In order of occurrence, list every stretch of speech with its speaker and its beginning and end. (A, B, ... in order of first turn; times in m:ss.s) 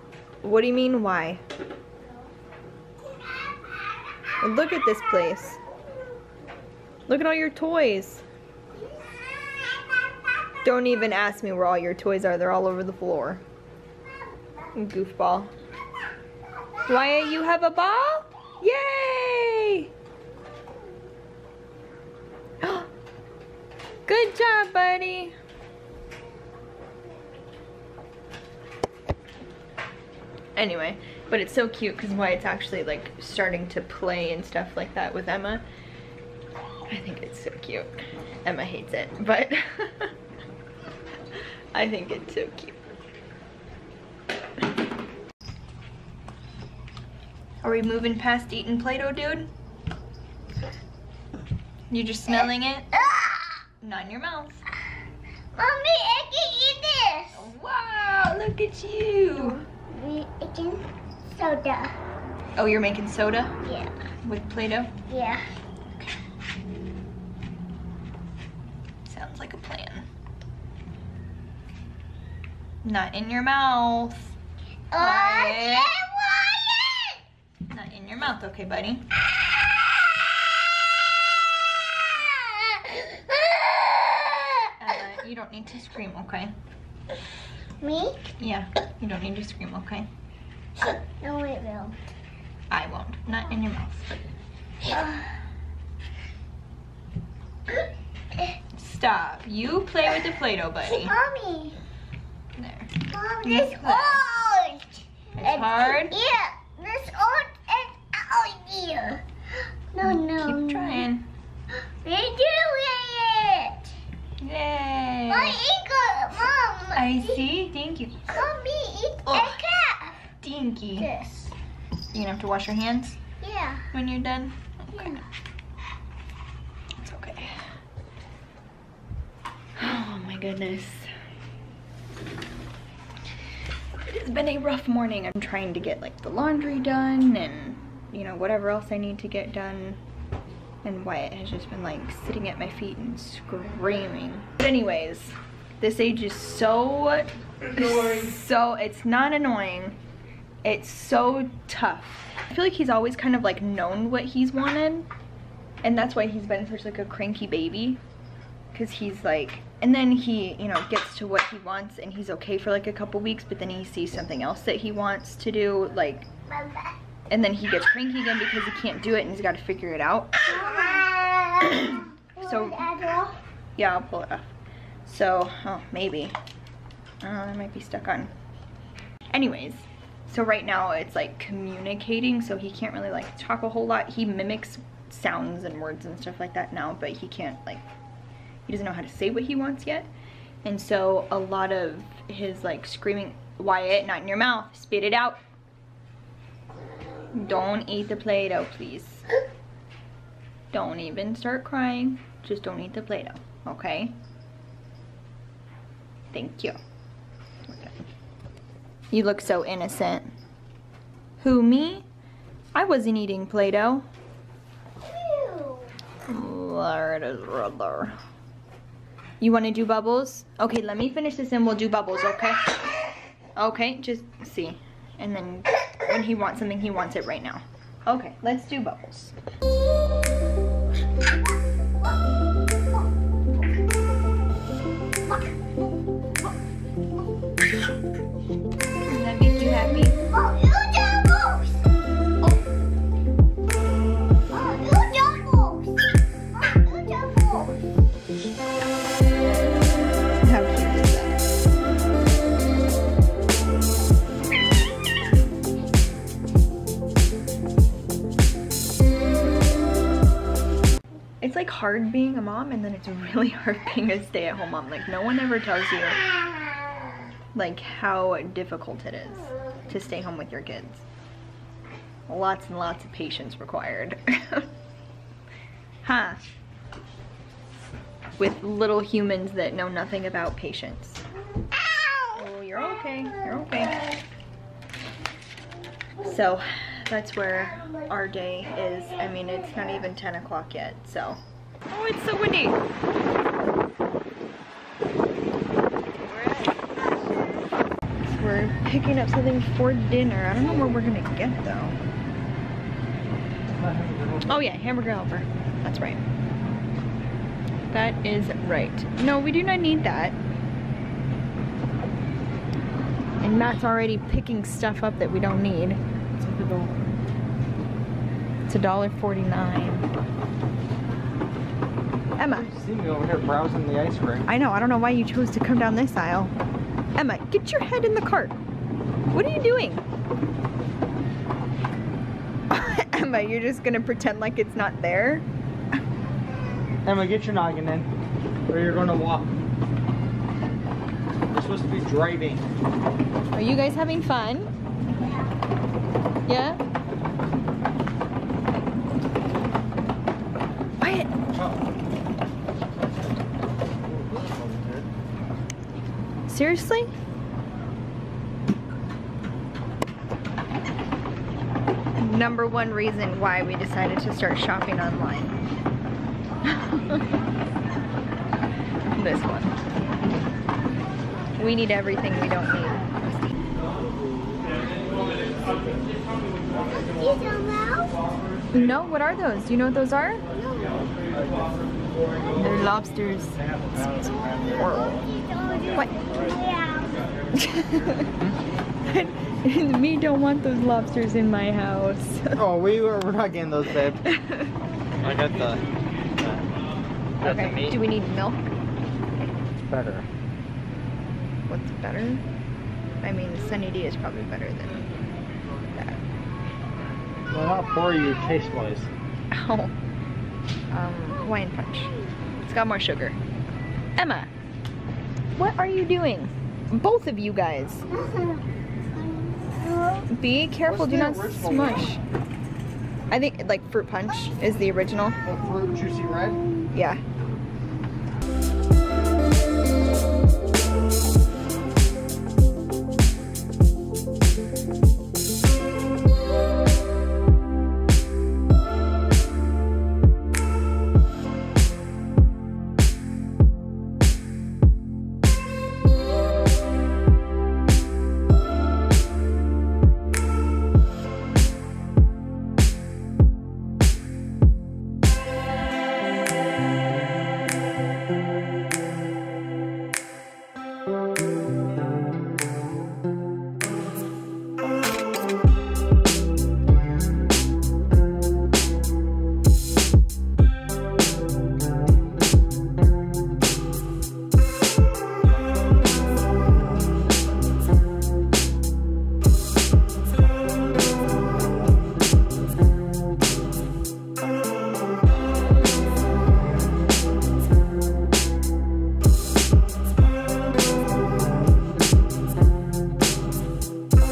0:00.4-0:01.4 A
0:03.1-0:04.0 B
0:04.4-0:05.6 A
0:07.1-0:08.2 A
0:08.7-0:10.8 B
0:10.6-0:13.4 A
0:14.7-0:15.5 A
0:16.8-0:19.9 A
0:22.6-0:22.9 A
0:24.1-0:25.4 A
0:30.6-0:35.6 A
0:36.9-0:40.1 A
0:41.7-0:42.8 A
0:47.6-0:49.5 A
0:51.9-0:53.0 A
0:53.0-0:53.6 B
0:53.8-0:54.6 A
0:55.6-0:57.4 B
0:57.3-0:59.6 A
0:59.4-1:01.9 B
1:02.6-1:03.5 A
1:03.6-1:03.9 B
1:04.2-1:04.9 A
1:05.1-1:05.5 B
1:09.0-1:10.1 A
1:12.8-1:14.4 A
1:14.9-1:17.2 B
1:15.0-1:16.0 A
1:17.7-1:19.0 A
1:22.8-1:24.7 B
1:24.8-1:26.5 A
1:27.8-1:28.3 B
1:28.4-1:30.1 A
1:30.9-1:32.0 B
1:32.7-1:34.2 A
1:38.7-1:41.1 A
1:40.9-1:41.8 B
1:42.6-1:44.2 A
1:43.1-1:49.2 B
1:45.4-1:46.2 A
1:49.9-1:51.1 B
1:50.0-1:51.3 A
1:52.0-1:53.9 B
1:54.4-1:55.6 A
1:55.3-1:57.5 B
1:56.9-1:58.4 A
1:58.3-2:00.2 B
1:59.3-1:59.6 A
2:00.4-2:01.1 A
2:01.0-2:01.5 B
2:02.1-2:03.2 A
2:03.4-2:03.9 B
2:03.9-2:05.2 A
2:05.0-2:05.2 B
2:07.0-2:07.7 A
2:09.8-2:11.1 A
2:14.0-2:20.0 A
2:20.8-2:30.0 A
2:30.6-2:35.1 A
2:35.8-2:38.0 A
2:38.7-2:46.3 A
2:46.6-2:46.9 B
2:47.3-2:50.5 A
2:50.5-2:53.4 B
2:52.4-2:52.9 A
2:53.8-2:54.5 A
2:55.0-2:56.4 A
2:57.2-2:58.3 A
2:59.3-3:07.8 A
3:08.7-3:10.1 A
3:10.6-3:15.4 A
3:17.3-3:19.2 A
3:20.7-3:24.2 A
3:26.3-3:26.8 A
3:27.7-3:28.0 A
3:29.1-3:30.3 A
3:31.4-3:32.1 A
3:32.7-3:34.1 A
3:35.0-3:35.9 B
3:36.3-3:38.2 A
3:39.4-3:42.7 A
3:43.6-3:49.4 A
3:59.1-4:00.2 A
4:00.2-4:01.8 B
4:04.5-4:07.8 B
4:10.4-4:11.4 A
4:21.4-4:26.2 A
4:27.5-4:31.0 A
4:32.3-4:34.7 A
4:36.0-4:36.4 A
4:38.4-4:41.2 A
4:42.3-4:44.1 A
4:46.2-4:52.8 A
4:56.3-4:56.8 A
4:58.2-5:02.0 A
5:03.8-5:04.5 C
5:04.5-5:06.2 A
5:07.9-5:10.4 A
5:13.4-5:16.0 A
5:16.4-5:17.0 C
5:18.7-5:20.1 A
5:22.4-5:22.7 A
5:22.4-5:24.5 C
5:24.5-5:26.5 A
5:27.2-5:28.6 A
5:29.3-5:30.0 A
5:32.7-5:35.5 A
5:37.0-5:38.1 C
5:38.7-5:39.5 C
5:41.5-5:42.7 C
5:43.5-5:44.7 A
5:46.5-5:46.8 A
5:51.0-5:51.3 A
5:51.5-5:51.8 C
5:54.0-5:55.1 C
5:56.5-5:57.1 A
6:02.2-6:05.6 A
6:06.6-6:07.3 A
6:09.1-6:09.8 A
6:11.6-6:13.5 A
6:17.1-6:18.2 B
6:18.7-6:20.4 A
6:21.4-6:21.8 C
6:22.5-6:25.2 A
6:23.8-6:25.0 C
6:25.0-6:27.2 B
6:27.5-6:28.3 A
6:29.0-6:32.6 A
6:32.6-6:34.2 C
6:34.2-6:34.7 A
6:35.2-6:36.6 C
6:37.4-6:38.0 C
6:37.4-6:38.6 A
6:39.9-6:40.3 C
6:41.7-6:42.4 A
6:43.2-6:45.0 A
6:47.5-6:49.1 C
6:49.5-6:49.9 A
6:50.9-6:53.4 A
6:54.2-6:54.5 A
6:55.6-6:58.1 A
6:58.1-6:58.6 B
6:59.2-7:00.3 B
7:00.3-7:02.2 A
7:00.8-7:02.2 C
7:03.3-7:05.4 A
7:05.4-7:06.6 C
7:06.9-7:07.2 A